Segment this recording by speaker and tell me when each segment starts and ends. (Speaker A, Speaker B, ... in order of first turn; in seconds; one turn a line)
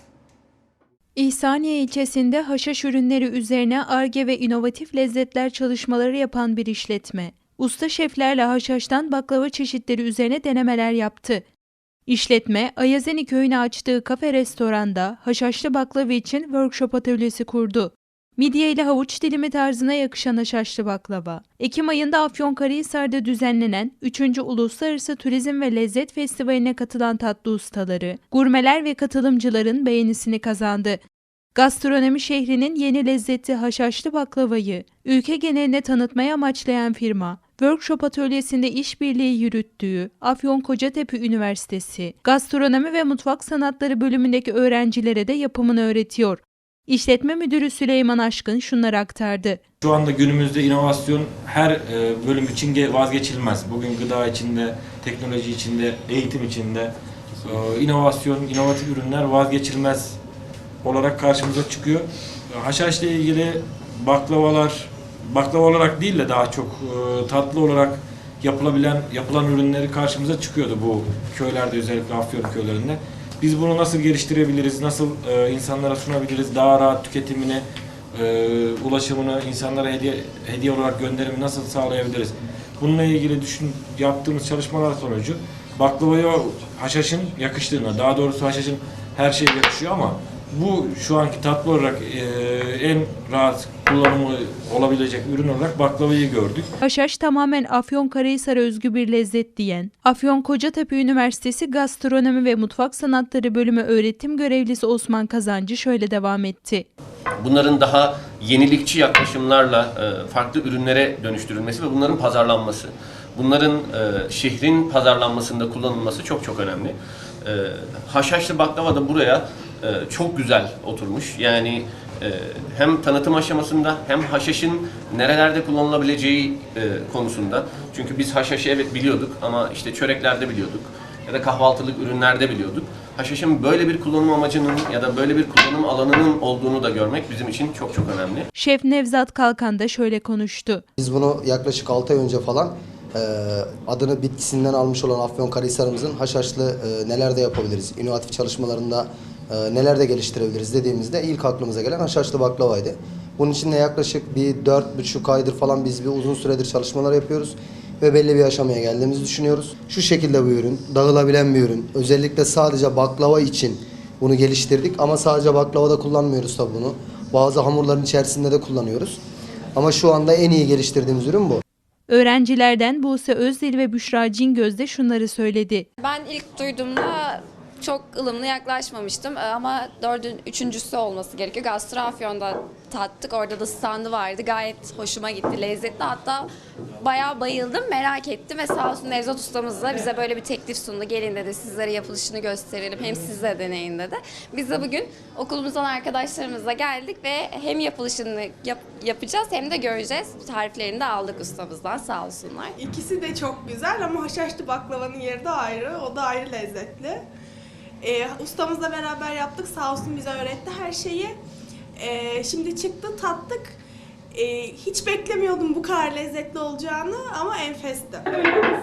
Speaker A: 1.1-11.4
Speaker A: 12.1-31.0
Speaker A: 31.5-49.6
Speaker B: 49.8-60.2
Speaker B: 60.8-96.7
Speaker A: 96.8-106.9
Speaker C: 107.4-138.5
Speaker A: 138.6-140.8
Speaker D: 141.0-169.2
Speaker D: 169.7-171.6
Speaker A: 172.1-175.8
Speaker E: 176.0-202.7
Speaker F: 202.8-207.2
Speaker F: 208.0-211.3
Speaker F: 212.0-213.8
Speaker F: 214.3-218.6